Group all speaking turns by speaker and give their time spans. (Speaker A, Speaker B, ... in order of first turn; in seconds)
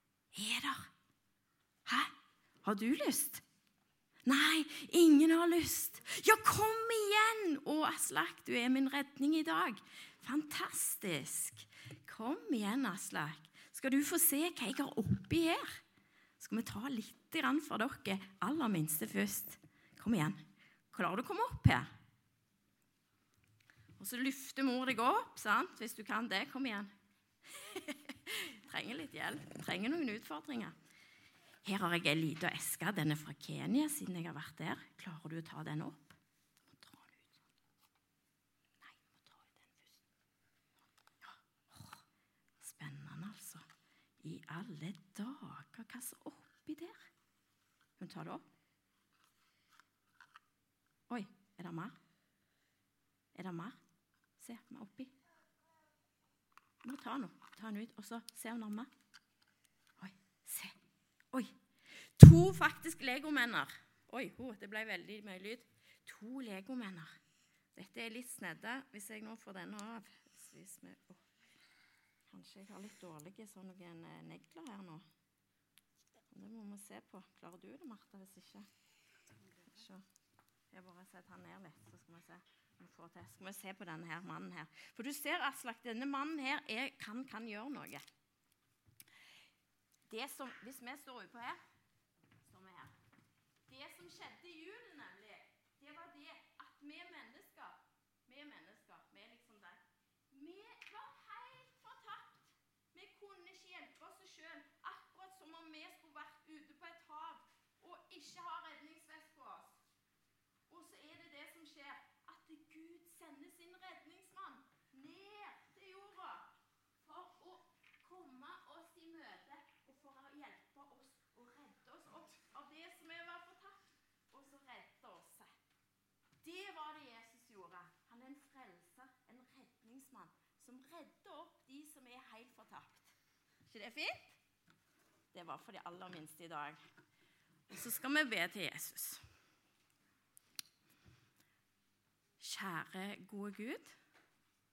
Speaker A: 0.3-0.9, 1.9-3.4, 4.2-15.8, 16.4-21.9, 24.0-26.9, 27.5-30.7, 31.6-37.4, 38.8-40.0, 41.2-42.0, 42.6-43.6, 44.2-47.1, 48.0-48.4, 51.1-52.0, 53.3-53.8, 54.4-55.1, 56.8-58.9, 60.0-60.8, 61.3-67.2, 67.7-71.2, 72.3-75.0, 76.3-78.7, 79.5-80.0, 80.7-88.0, 90.1-91.6, 92.4-92.9, 93.7-109.8, 110.7-116.5, 117.0-125.5, 126.4-133.1, 133.7-134.4, 135.3-136.8, 137.7-139.2, 142.4-144.0